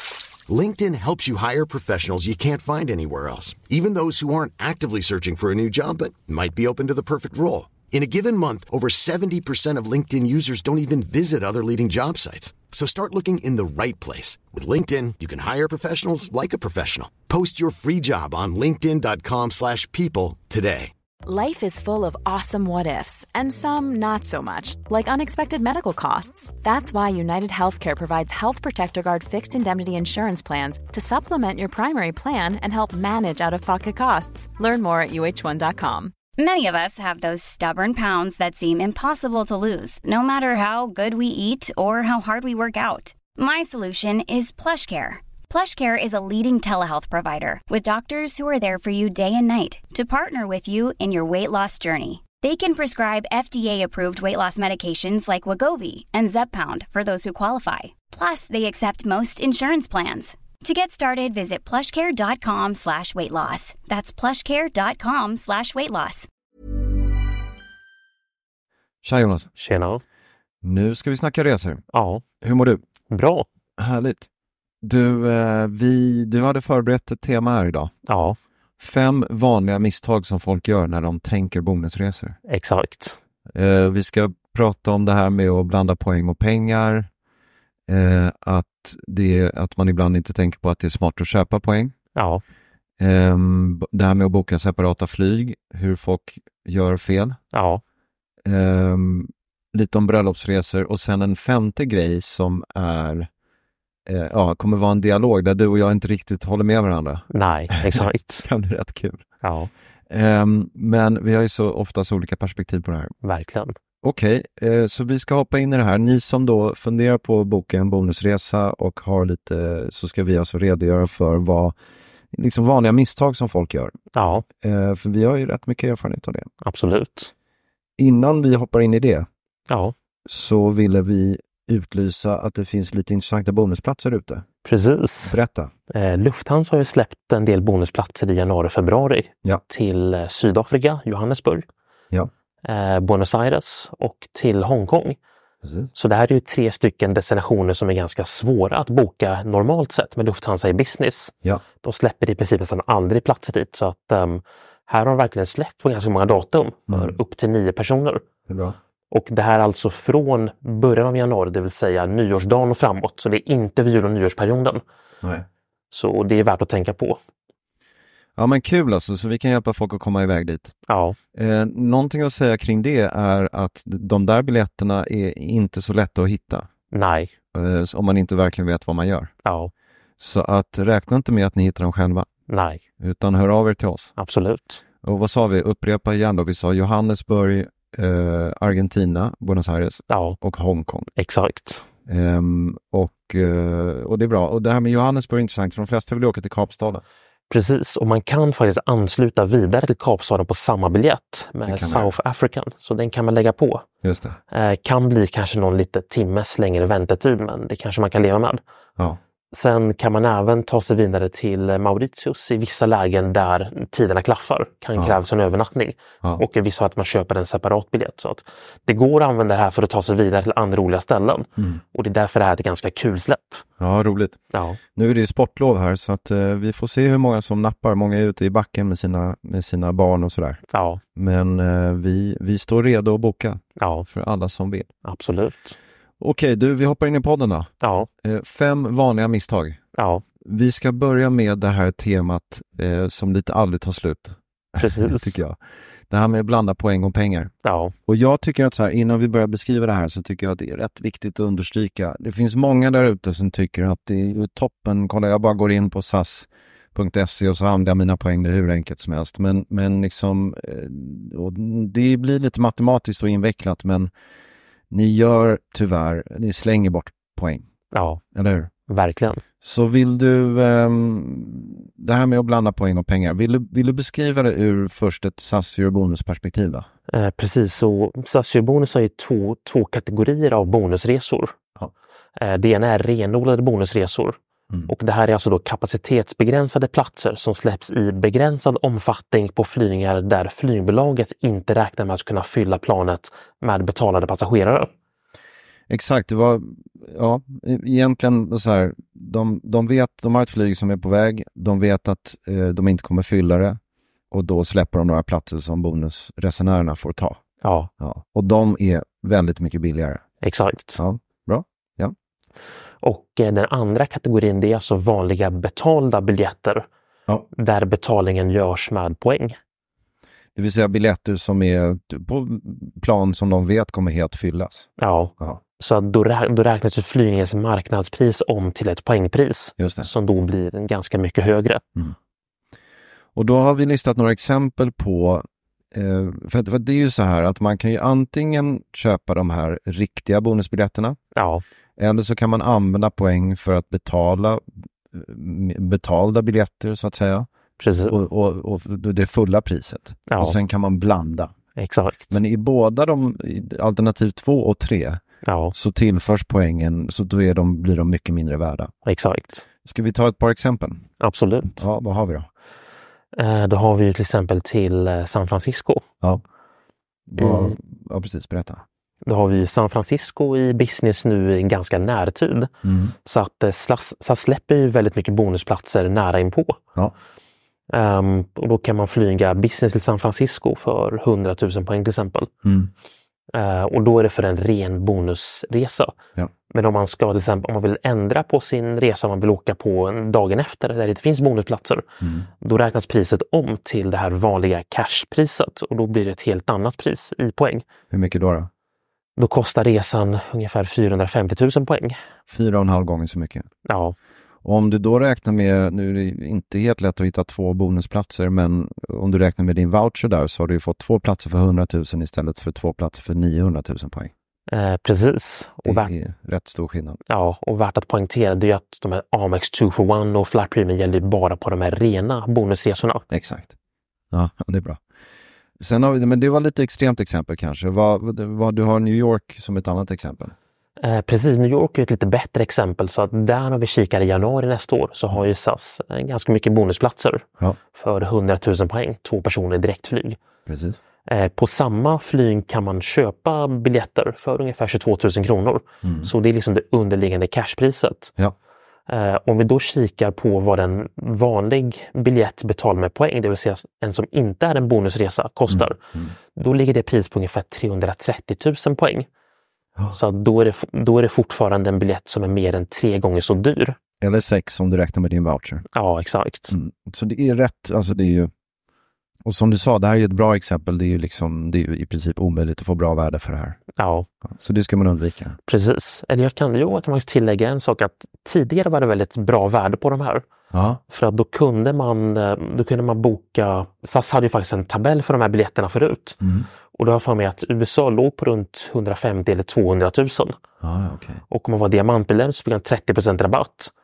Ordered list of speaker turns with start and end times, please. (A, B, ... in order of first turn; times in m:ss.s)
0:00.4-0:20.9 A
0:21.2-0:36.1 B
0:36.4-1:06.3 C
1:09.0-1:09.5 D
1:09.6-1:10.0 E
1:10.6-1:11.8 D
1:11.9-1:12.2 E
1:12.4-1:12.8 D
1:13.1-1:13.5 E
1:13.8-1:14.3 D
1:14.8-1:17.9 D
1:18.1-1:18.4 E
1:18.8-1:22.4 D
1:22.5-1:23.2 E
1:23.5-1:27.1 D
1:27.9-1:31.9 D
1:32.2-1:32.4 E
1:33.0-1:37.4 D
1:37.5-1:37.8 E
1:38.4-1:43.3 D
1:44.0-1:49.2 D
1:47.3-1:48.4 E
1:49.4-1:49.7 E
1:50.1-1:53.1 D
1:53.2-1:53.7 E
1:54.0-2:01.7 D
2:02.3-2:06.5 D
2:04.1-2:04.4 E
2:06.6-2:07.3 E
2:08.0-2:09.3 D
2:09.7-2:09.9 E
2:10.3-2:14.4 D
2:14.6-2:15.4 E
2:15.2-2:15.7 D
2:15.9-2:21.6 E
2:22.6-2:25.2 E
2:25.6-2:25.9 D
2:26.0-2:38.2 E
2:36.9-2:37.2 D
2:38.5-2:38.8 D
2:39.1-2:44.8 E
2:45.9-2:47.2 E
2:48.4-2:50.7 D
2:50.9-2:51.2 E
2:51.3-2:56.7 D
2:56.9-2:57.3 E
2:57.5-2:59.3 D
2:59.4-2:59.7 E
3:00.2-3:02.3 D
3:02.5-3:02.8 E
3:03.0-3:04.1 D
3:04.2-3:04.8 E
3:05.0-3:11.1 D
3:10.1-3:10.4 E
3:11.2-3:11.8 E
3:12.1-3:17.0 D
3:17.5-3:23.8 E
3:21.7-3:22.1 D
3:24.0-3:24.4 D
3:24.5-3:28.6 E
3:29.5-3:43.6 E
3:43.8-3:44.4 D
3:44.5-3:44.8 E
3:44.9-3:50.6 D
3:50.7-3:51.0 E
3:51.2-3:54.9 D
3:53.8-3:54.1 E
3:55.0-3:55.8 E
3:56.2-3:57.7 D
3:57.8-3:58.1 E
3:58.2-3:59.8 D
4:00.0-4:00.2 E
4:00.4-4:05.6 D
4:04.8-4:05.4 E
4:06.1-4:07.5 D
4:07.6-4:07.9 E
4:08.1-4:24.1 D
4:24.9-4:27.7 D
4:27.9-4:28.2 E
4:28.3-4:28.7 D
4:28.9-4:29.4 E
4:29.6-4:36.9 D
4:37.1-4:41.6 E
4:42.4-4:54.9 E
4:55.9-5:03.8 D
5:04.3-5:07.4 D
5:07.6-5:07.9 E
5:08.0-5:10.2 D
5:10.4-5:11.0 E
5:11.0-5:12.1 D
5:13.0-5:16.8 E
5:17.5-5:19.6 E
5:20.6-5:24.9 D
5:25.0-5:31.8 E
5:29.8-5:30.1 D
5:33.3-5:41.2 D
5:41.4-5:41.6 E
5:42.0-5:47.5 D
5:47.8-5:48.1 E
5:48.1-5:51.5 D
5:50.3-5:50.6 E
5:51.8-5:52.4 E
5:52.3-5:58.9 D
5:55.4-5:55.7 E
5:59.0-5:59.6 E
5:59.8-6:01.0 D
6:01.2-6:01.8 E
6:01.8-6:02.5 D
6:03.4-6:06.0 E
6:07.3-6:08.8 D
6:07.4-6:07.7 E
6:09.2-6:12.7 E
6:12.8-6:13.1 D
6:13.2-6:16.8 E
6:17.9-6:22.5 E
6:22.6-6:22.9 D
6:23.5-6:26.1 E
6:26.7-6:32.0 E
6:32.2-6:32.5 D
6:32.6-6:37.8 E
6:38.1-6:38.7 D
6:39.4-6:42.2 E
6:42.5-6:43.7 D
6:43.8-6:44.1 E
6:44.6-6:54.3 D
6:54.7-6:56.1 E
6:55.8-6:57.2 D
6:57.3-7:03.2 E
7:03.3-7:03.7 D
7:04.3-7:05.0 D
7:05.8-7:10.5 D
7:11.0-7:20.4 E
7:20.7-7:21.0 D
7:21.3-7:28.3 E
7:26.0-7:26.3 D
7:29.1-7:36.0 E
7:35.7-7:36.3 D
7:36.5-7:39.3 E
7:40.1-7:44.0 E
7:44.2-7:45.8 D
7:45.9-7:46.7 E
7:46.7-7:48.5 D
7:49.4-7:53.8 D
7:53.9-7:54.3 E
7:54.5-7:55.6 D
7:55.7-8:00.4 E
8:00.7-8:01.0 D
8:01.1-8:06.4 E
8:06.4-8:06.7 D
8:06.9-8:10.6 E
8:10.8-8:11.4 D
8:11.5-8:13.9 E